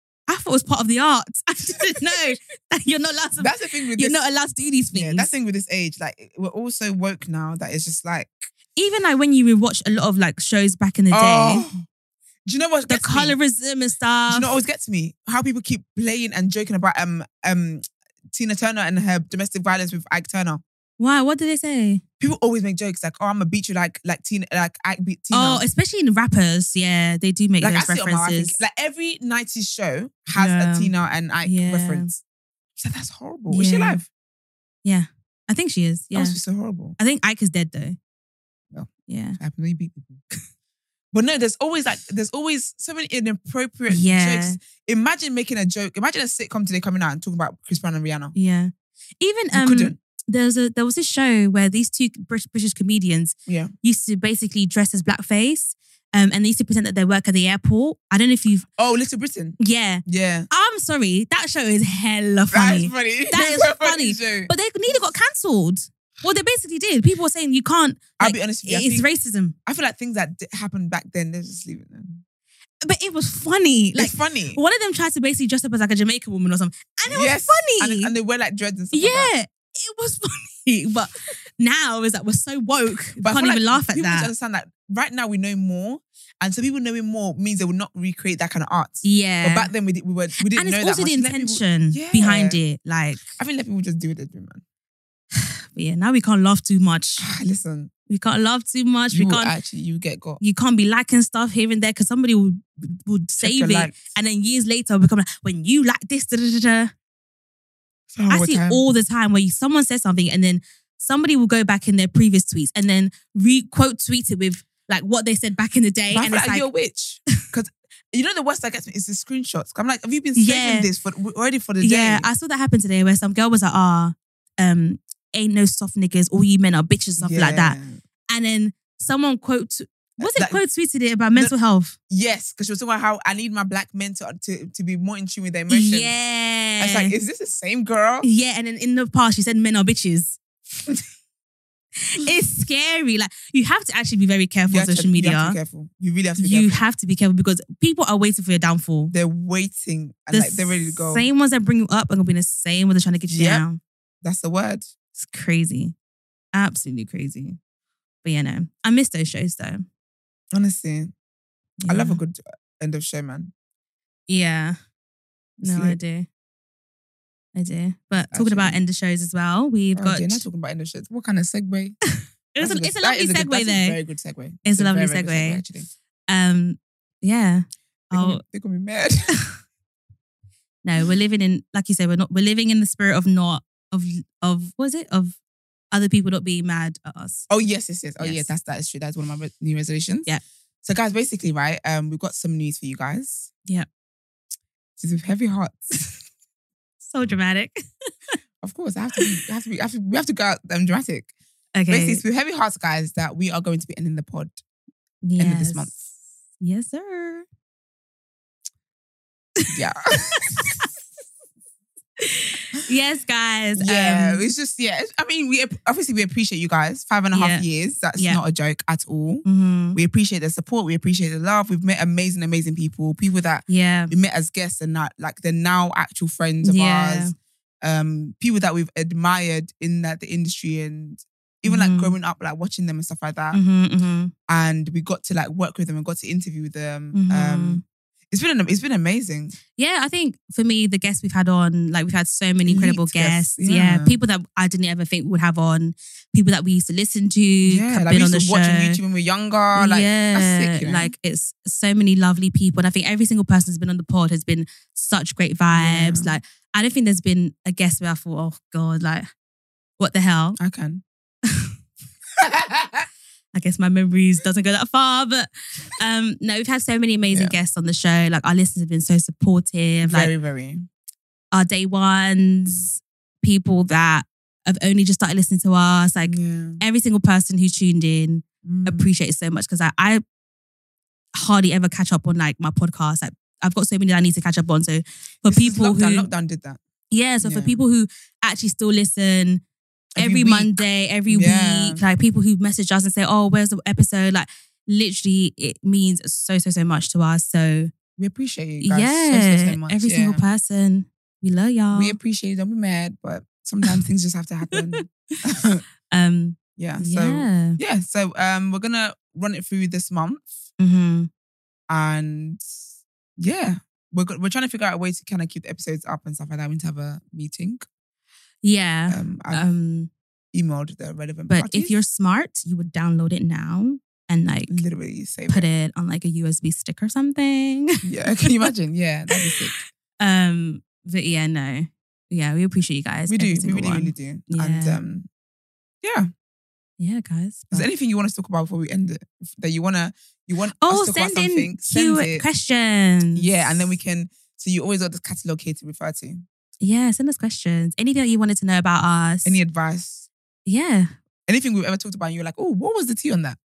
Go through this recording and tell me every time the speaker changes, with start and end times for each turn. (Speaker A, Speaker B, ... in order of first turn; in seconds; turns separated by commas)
Speaker A: 0.3-5.3, Speaker B: 3.4-4.2, Speaker B: 4.9-8.5, Speaker A: 8.8-11.7, Speaker B: 11.1-11.8, Speaker B: 12.4-13.3, Speaker A: 12.9-14.5, Speaker B: 14.3-20.6, Speaker A: 21.0-22.0, Speaker B: 22.2-25.6, Speaker A: 25.3-28.6, Speaker B: 27.6-32.2, Speaker A: 30.3-30.9, Speaker A: 31.4-32.1, Speaker B: 32.8-34.1, Speaker A: 33.5-34.0, Speaker A: 34.8-36.4, Speaker B: 36.1-37.0, Speaker A: 37.0-38.0, Speaker B: 38.7-40.2, Speaker A: 39.1-39.4, Speaker B: 41.1-48.3, Speaker A: 43.9-44.6, Speaker A: 48.3-58.7, Speaker B: 49.5-50.0, Speaker B: 53.5-53.7, Speaker B: 58.8-60.5, Speaker A: 59.6-69.5, Speaker B: 62.5-64.5, Speaker B: 68.2-69.1, Speaker B: 69.7-72.2, Speaker A: 72.8-78.1, Speaker B: 73.9-74.6, Speaker B: 77.0-79.3, Speaker A: 78.9-84.3, Speaker B: 83.2-92.6, Speaker A: 89.0-89.7, Speaker A: 90.4-93.2, Speaker B: 93.2-94.6, Speaker A: 95.7-97.2, Speaker B: 97.2-97.9, Speaker A: 98.1-99.5, Speaker B: 99.1-100.4, Speaker A: 100.4-106.9, Speaker B: 103.4-104.1, Speaker B: 108.1-108.8, Speaker A: 108.3-116.7, Speaker B: 116.1-122.3, Speaker A: 120.3-120.9, Speaker A: 121.8-127.8, Speaker B: 127.2-128.0, Speaker A: 128.3-131.9, Speaker B: 130.2-130.6, Speaker B: 132.1-136.1, Speaker A: 135.7-137.1, Speaker B: 136.8-138.3, Speaker A: 138.2-140.4, Speaker A: 142.0-145.6, Speaker B: 144.7-146.8, Speaker A: 146.4-149.1, Speaker B: 149.1-151.2, Speaker A: 150.3-153.8, Speaker B: 153.3-153.6, Speaker B: 154.2-154.9, Speaker A: 155.1-155.9, Speaker A: 156.5-157.6, Speaker A: 158.2-159.8, Speaker B: 160.5-161.1, Speaker B: 161.8-163.5, Speaker A: 161.9-162.2, Speaker A: 164.3-164.8, Speaker B: 165.6-166.0, Speaker A: 165.6-166.3, Speaker A: 167.5-170.4, Speaker B: 168.2-168.8, Speaker B: 169.9-172.0, Speaker A: 172.5-174.0, Speaker B: 172.6-175.9, Speaker A: 174.7-175.6, Speaker A: 176.3-178.4, Speaker B: 178.1-179.3, Speaker A: 180.8-185.4, Speaker A: 185.9-187.5, Speaker B: 187.5-190.3, Speaker A: 188.2-188.5, Speaker B: 190.8-193.5, Speaker B: 195.0-195.9, Speaker A: 197.0-198.1, Speaker B: 198.6-201.3, Speaker A: 201.7-202.2, Speaker B: 201.9-204.6, Speaker A: 205.2-206.0, Speaker B: 205.4-206.1, Speaker A: 206.6-207.4, Speaker B: 209.7-210.9, Speaker A: 210.5-210.9, Speaker A: 212.2-214.4, Speaker B: 213.8-233.6, Speaker A: 217.3-217.6, Speaker A: 219.4-220.0, Speaker A: 223.7-224.1, Speaker A: 226.6-227.3, Speaker A: 231.6-232.2, Speaker A: 233.5-234.3, Speaker B: 234.5-239.6, Speaker A: 237.1-237.8, Speaker A: 239.8-249.0, Speaker B: 242.6-244.1, Speaker B: 247.7-251.1, Speaker A: 249.7-259.3, Speaker B: 255.7-256.4, Speaker A: 260.0-260.6, Speaker B: 260.6-261.0, Speaker B: 262.4-263.1, Speaker A: 263.5-270.3, Speaker B: 267.3-267.6, Speaker B: 270.0-270.9, Speaker A: 271.5-280.2, Speaker B: 276.2-276.8, Speaker B: 278.6-279.1, Speaker A: 281.3-286.3, Speaker B: 285.4-286.8, Speaker A: 287.1-289.6, Speaker B: 287.4-287.8, Speaker B: 290.1-292.0, Speaker A: 290.1-297.9, Speaker B: 298.2-300.4, Speaker A: 298.8-302.2, Speaker B: 301.9-305.8, Speaker A: 304.7-305.0, Speaker A: 306.1-307.8, Speaker B: 306.8-310.6, Speaker A: 310.8-311.3, Speaker B: 311.9-312.6, Speaker B: 313.4-317.9, Speaker A: 318.6-320.1, Speaker B: 319.1-319.6, Speaker B: 320.5-321.9, Speaker A: 321.5-324.8, Speaker B: 324.7-325.7, Speaker A: 325.5-328.0, Speaker B: 328.0-329.8, Speaker A: 329.3-335.0, Speaker B: 333.3-335.3, Speaker B: 336.0-336.3, Speaker A: 337.0-337.9, Speaker B: 337.7-342.4, Speaker A: 340.8-343.9, Speaker B: 343.3-346.4, Speaker A: 346.8-349.6, Speaker B: 349.4-350.3, Speaker A: 350.6-351.1, Speaker B: 351.5-353.6